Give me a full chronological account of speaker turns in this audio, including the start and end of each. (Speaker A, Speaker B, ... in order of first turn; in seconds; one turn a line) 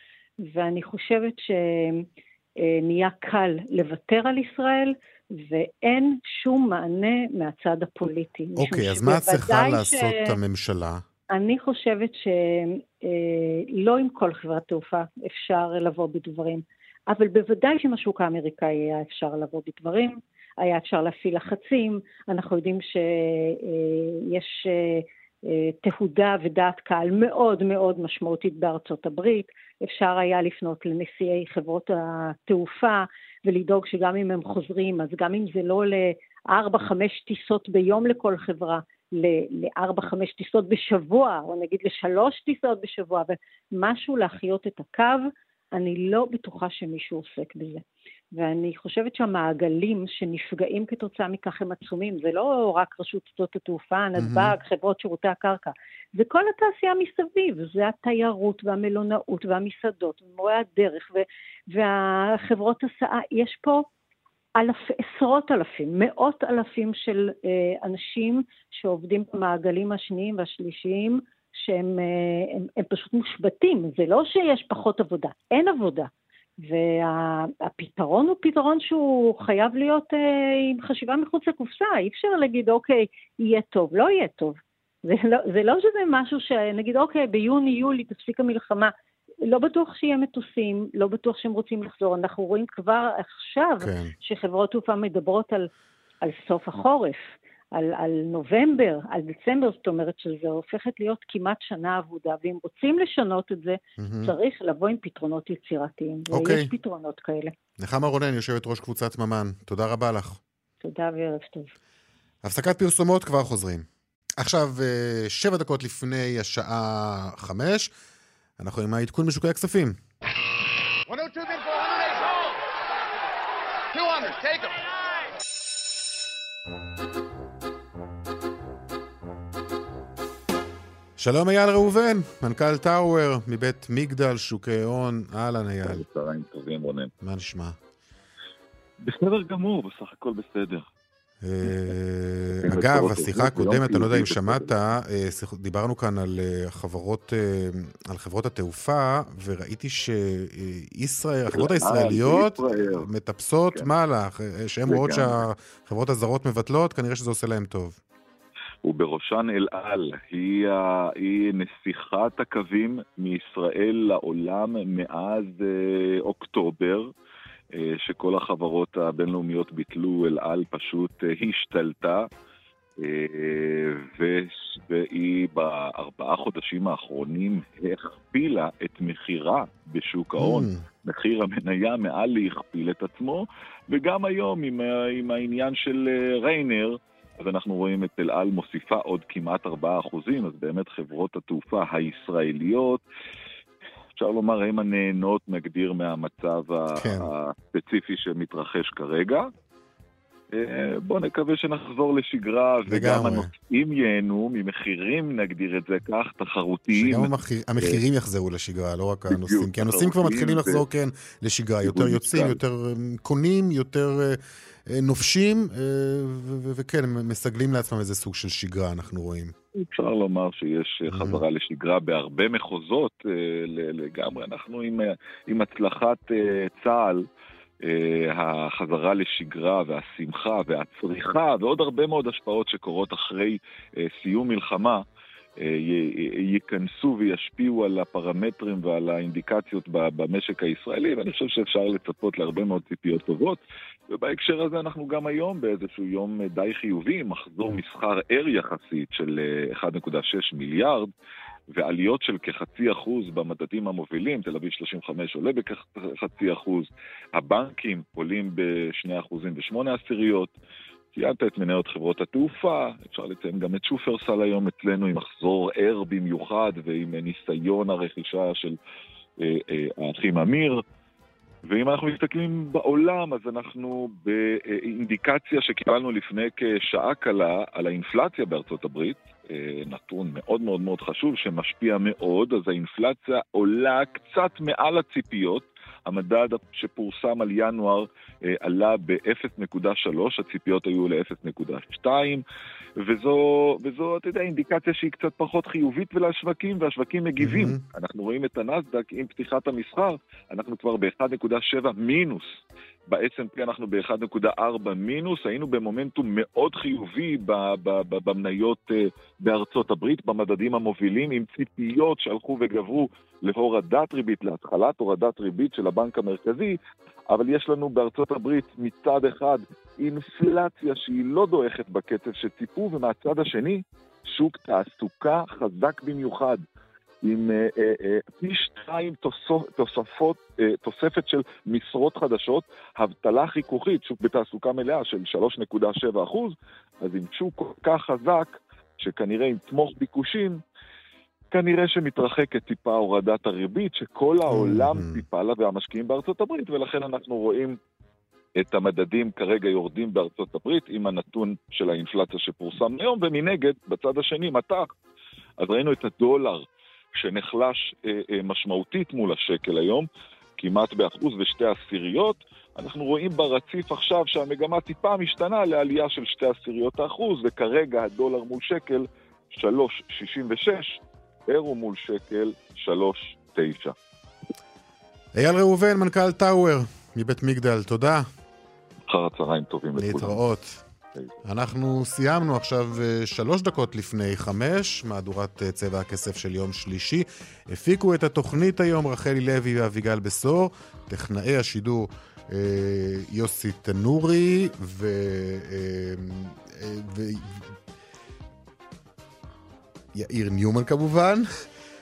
Speaker A: 0.4-2.1
Speaker A: 2.6-10.4
Speaker B: 8.6-11.0
Speaker A: 11.3-63.9
Speaker B: 54.2-54.5
Speaker A: 64.6-88.9
Speaker A: 89.4-95.7
Speaker B: 93.8-94.1
Speaker A: 96.2-107.5
Speaker B: 104.0-104.3
Speaker B: 106.3-106.7
Speaker B: 107.8-110.4
Speaker A: 110.8-111.7
Speaker B: 112.4-113.9
Speaker B: 114.4-117.9
Speaker B: 118.6-120.0
Speaker C: 121.1-122.3
Speaker C: 123.9-124.8
Speaker B: 131.2-136.0
Speaker D: 135.9-137.1
Speaker B: 137.2-137.8
Speaker D: 139.1-140.9
Speaker B: 141.4-158.0
Speaker D: 142.7-144.7
Speaker D: 151.5-153.1
Speaker D: 154.9-155.4
Speaker D: 158.8-167.1
Speaker D: 167.8-172.3
Speaker D: 173.0-193.0
Speaker B: 180.4-180.8
Speaker D: 194.2-199.5
Speaker B: 197.0-197.3
Speaker D: 200.5-208.0
Speaker B: 202.9-203.5
Speaker B: 206.9-219.5
Speaker D: 209.3-210.8
Speaker D: 211.8-212.6
Speaker D: 219.8-227.2
Speaker B: 221.1-221.4
Speaker D: 227.8-235.0
Speaker D: 235.6-251.1
Speaker D: 251.8-260.5
Speaker D: 261.1-268.8
Speaker D: 269.4-270.8
Speaker D: 271.7-292.4
Speaker D: 293.0-316.8
Speaker B: 297.4-297.8
Speaker D: 317.3-326.6
Speaker D: 327.2-340.6
Speaker D: 341.5-347.8
Speaker B: 344.5-345.2
Speaker D: 348.6-354.9
Speaker D: 355.6-360.1
Speaker D: 360.6-373.9
Speaker B: 375.4-378.2
Speaker D: 379.1-380.4
Speaker B: 380.0-380.8
Speaker B: 381.4-397.7
Speaker B: 400.1-401.4